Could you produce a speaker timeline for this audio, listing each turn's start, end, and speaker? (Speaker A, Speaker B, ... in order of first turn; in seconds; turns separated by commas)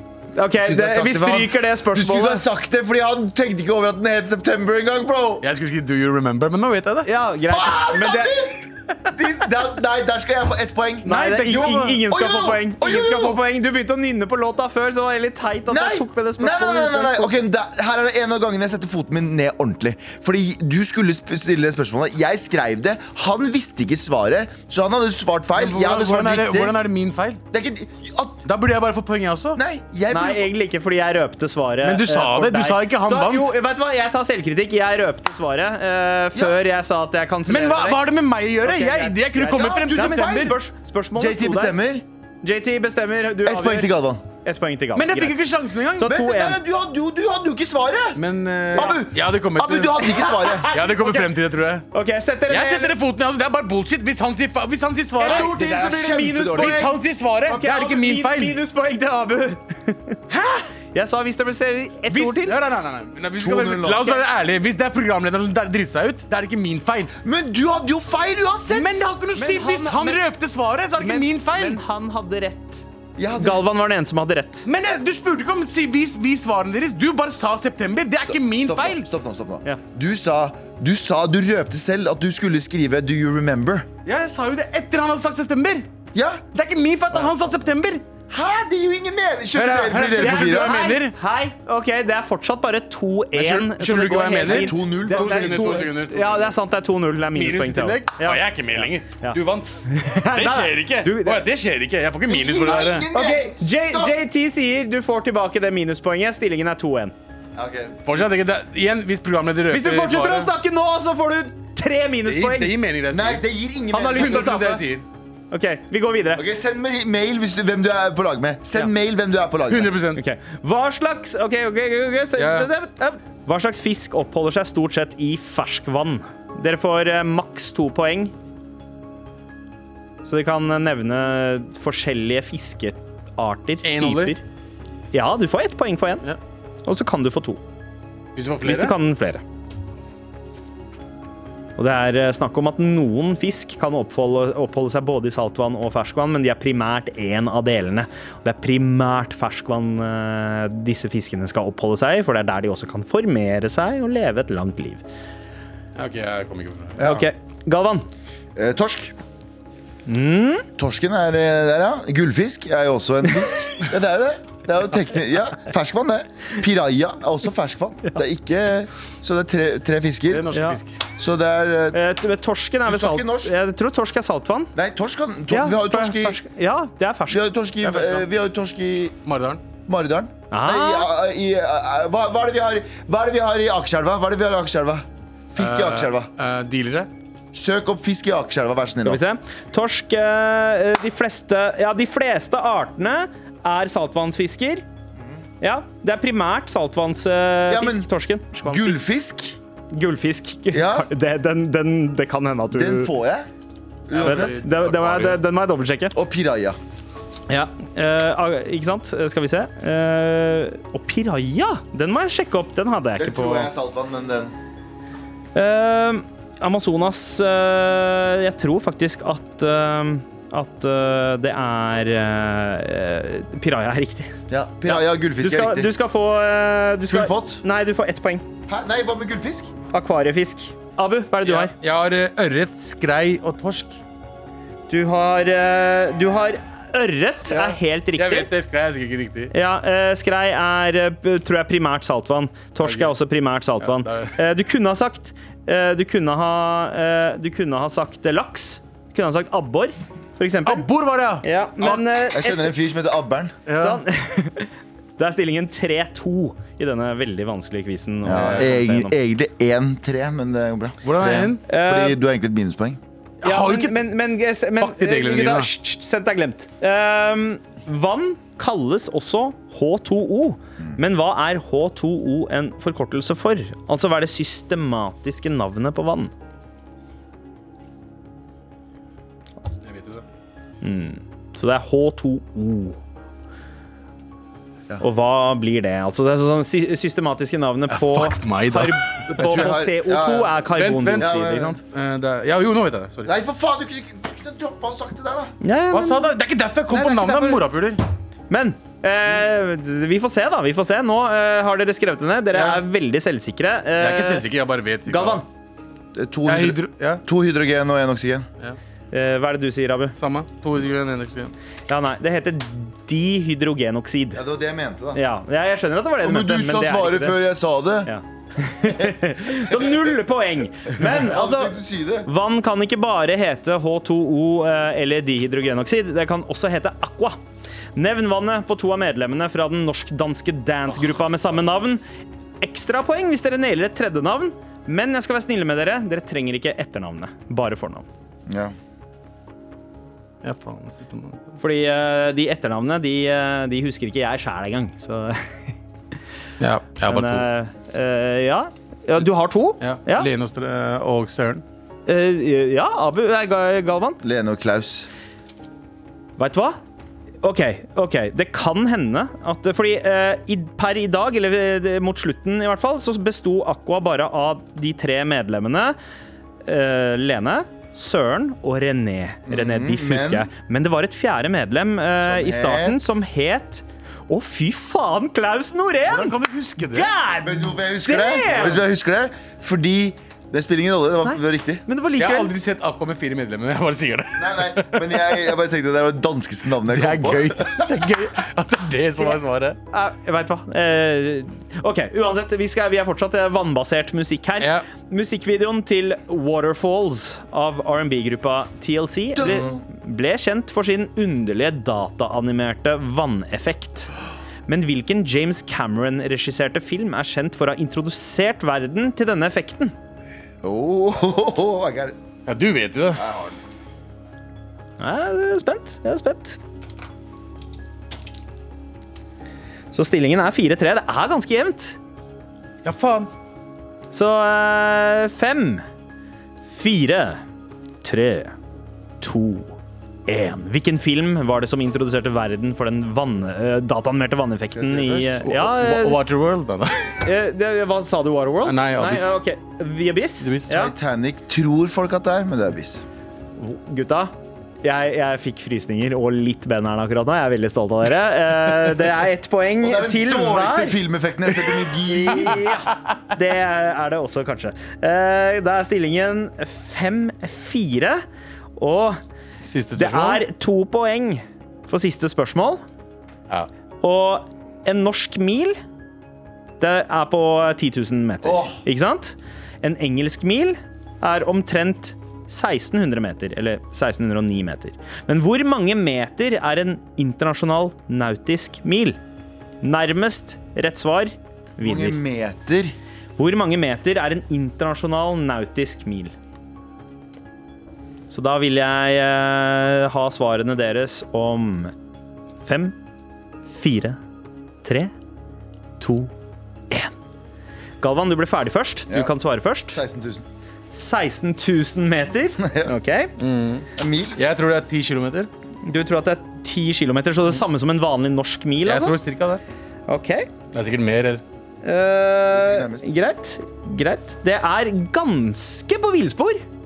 Speaker A: 0.3-2.4, Speaker B: 0.6-5.5, Speaker C: 5.4-7.1, Speaker A: 7.0-8.5, Speaker B: 7.5-11.5, Speaker C: 11.1-12.0, Speaker A: 11.1-17.4, Speaker B: 12.1-13.4, Speaker B: 15.7-26.8, Speaker C: 25.6-27.4, Speaker B: 27.5-28.4, Speaker C: 28.5-29.6, Speaker B: 29.6-30.5, Speaker A: 30.1-38.0, Speaker C: 31.8-33.5, Speaker C: 37.5-40.5, Speaker A: 38.6-41.8, Speaker B: 39.5-40.6, Speaker B: 41.2-42.0, Speaker A: 42.4-45.4, Speaker B: 43.4-44.2, Speaker C: 45.0-46.1, Speaker A: 46.0-46.6, Speaker B: 46.0-48.2, Speaker C: 48.2-50.1, Speaker B: 48.7-50.7, Speaker A: 50.2-51.3, Speaker C: 50.7-51.9, Speaker A: 51.9-53.0, Speaker C: 52.5-55.5, Speaker A: 55.2-56.9, Speaker B: 55.2-56.9, Speaker C: 56.5-58.6, Speaker A: 57.5-60.2, Speaker C: 60.3-60.6, Speaker A: 60.9-62.5, Speaker C: 62.1-67.1, Speaker B: 63.4-64.2, Speaker B: 67.2-69.1, Speaker C: 68.7-71.8, Speaker A: 69.4-70.2, Speaker A: 71.0-74.7, Speaker B: 73.2-73.7, Speaker C: 74.7-79.0, Speaker B: 78.3-83.9, Speaker C: 84.0-85.9, Speaker B: 86.1-86.4, Speaker C: 86.5-88.0, Speaker B: 88.3-90.8, Speaker C: 89.5-91.1, Speaker A: 90.2-99.4, Speaker C: 93.3-96.5, Speaker B: 94.5-95.9, Speaker C: 97.3-103.1, Speaker A: 99.9-101.4, Speaker B: 102.3-104.2, Speaker A: 103.1-107.1, Speaker B: 107.6-108.0, Speaker C: 108.1-110.5, Speaker A: 109.7-112.8, Speaker C: 112.3-113.4, Speaker B: 113.1-114.6, Speaker A: 113.9-114.8, Speaker C: 114.2-115.0, Speaker A: 115.5-116.4, Speaker B: 116.3-120.0, Speaker C: 119.7-120.2, Speaker A: 120.2-128.3, Speaker C: 122.4-122.7, Speaker A: 130.2-134.4, Speaker C: 133.8-134.3, Speaker A: 135.1-136.2, Speaker A: 136.8-137.6, Speaker C: 138.4-139.0, Speaker A: 138.6-139.4, Speaker A: 141.8-155.0, Speaker C: 156.0-157.1, Speaker B: 157.0-157.3, Speaker A: 157.0-158.1, Speaker B: 158.6-159.1, Speaker A: 160.1-160.7, Speaker B: 160.8-170.5, Speaker C: 170.3-170.9, Speaker A: 170.5-170.8, Speaker B: 171.2-172.0, Speaker A: 171.9-174.7, Speaker B: 172.9-173.6, Speaker B: 174.8-176.4, Speaker A: 175.5-178.2, Speaker B: 177.3-179.1, Speaker C: 179.3-179.6, Speaker B: 179.9-186.3, Speaker A: 180.5-181.1, Speaker C: 185.6-187.1, Speaker B: 187.5-189.2, Speaker A: 189.0-194.8, Speaker B: 195.2-195.4, Speaker A: 195.6-199.1, Speaker B: 197.7-198.1, Speaker B: 198.6-199.6, Speaker A: 199.9-203.1, Speaker B: 200.7-201.1, Speaker B: 202.7-203.5, Speaker B: 204.1-204.6, Speaker C: 204.2-205.4, Speaker A: 204.2-206.1, Speaker B: 206.1-206.8, Speaker A: 207.5-213.7, Speaker B: 213.2-214.5, Speaker A: 215.6-224.3, Speaker B: 224.5-225.9, Speaker A: 224.9-228.4, Speaker B: 227.1-227.6, Speaker B: 228.7-229.7, Speaker A: 229.9-231.7, Speaker C: 231.4-234.0, Speaker A: 234.9-238.5, Speaker C: 237.5-239.5, Speaker A: 239.5-250.9, Speaker C: 242.8-243.1, Speaker C: 243.8-244.4, Speaker C: 250.7-251.5, Speaker A: 251.4-252.8, Speaker B: 251.8-253.6, Speaker C: 253.7-254.0, Speaker A: 253.8-259.1, Speaker B: 258.2-263.0, Speaker C: 261.0-261.6, Speaker A: 261.7-262.2, Speaker C: 263.4-264.1, Speaker A: 263.4-276.3, Speaker C: 264.8-265.7, Speaker C: 279.9-280.2, Speaker A: 280.8-283.0, Speaker A: 285.0-291.8, Speaker C: 287.9-289.1, Speaker B: 289.4-291.8, Speaker C: 290.7-291.3, Speaker C: 291.9-293.3, Speaker B: 293.2-295.5, Speaker A: 295.6-296.3, Speaker C: 295.9-298.0, Speaker A: 296.9-297.6, Speaker A: 298.5-304.4, Speaker C: 302.5-302.8, Speaker C: 304.0-305.4, Speaker A: 305.1-305.5, Speaker B: 306.1-308.5, Speaker C: 306.5-307.2, Speaker A: 309.1-310.1, Speaker C: 310.2-311.5, Speaker A: 311.9-314.4, Speaker B: 314.4-315.2, Speaker A: 315.1-317.4, Speaker B: 316.2-318.1, Speaker A: 318.1-327.4, Speaker B: 318.8-320.1, Speaker B: 320.9-322.3, Speaker A: 328.0-332.0, Speaker A: 332.6-338.1, Speaker B: 338.5-338.8, Speaker C: 340.4-341.5, Speaker A: 341.6-345.7, Speaker C: 346.6-347.5, Speaker A: 347.0-350.3, Speaker C: 349.8-351.6, Speaker A: 352.1-354.2, Speaker B: 354.2-355.1, Speaker A: 356.4-356.8, Speaker A: 357.4-366.0, Speaker A: 366.6-378.8, Speaker B: 369.5-370.5, Speaker B: 372.2-373.2, Speaker C: 376.1-377.1, Speaker B: 377.4-381.8, Speaker A: 381.2-382.5, Speaker C: 382.2-385.2, Speaker B: 384.4-387.9, Speaker C: 386.9-389.8, Speaker A: 389.9-404.1, Speaker B: 399.4-399.8, Speaker C: 399.4-399.7, Speaker A: 404.7-409.9, Speaker B: 410.6-412.2, Speaker C: 412.5-413.2, Speaker B: 413.1-413.6, Speaker A: 415.0-416.6, Speaker A: 419.9-422.0, Speaker C: 422.9-423.3, Speaker A: 424.1-425.9, Speaker A: 426.7-427.4, Speaker A: 428.0-428.5, Speaker A: 429.2-436.2, Speaker B: 434.7-435.5, Speaker C: 435.4-437.2, Speaker A: 437.2-440.9, Speaker C: 438.6-439.4, Speaker C: 440.4-440.7, Speaker B: 440.7-443.1, Speaker A: 443.6-451.0, Speaker B: 449.8-452.7, Speaker A: 451.9-458.2, Speaker A: 458.8-459.2, Speaker C: 459.6-460.4, Speaker A: 459.9-462.8, Speaker A: 464.0-465.8, Speaker A: 466.8-479.2, Speaker B: 468.4-468.8, Speaker A: 479.8-482.2, Speaker B: 481.8-482.9, Speaker A: 483.4-486.3, Speaker A: 488.3-491.9, Speaker A: 492.6-493.0, Speaker A: 493.7-494.2, Speaker A: 494.8-495.1, Speaker A: 496.0-496.3, Speaker A: 498.0-500.0, Speaker B: 499.9-500.5, Speaker A: 500.9-503.3, Speaker B: 502.6-502.9, Speaker C: 503.4-505.5, Speaker B: 504.0-504.4, Speaker A: 505.9-509.2, Speaker C: 508.8-509.6, Speaker A: 510.1-510.5, Speaker C: 510.7-511.4, Speaker A: 511.8-516.6, Speaker B: 512.5-513.1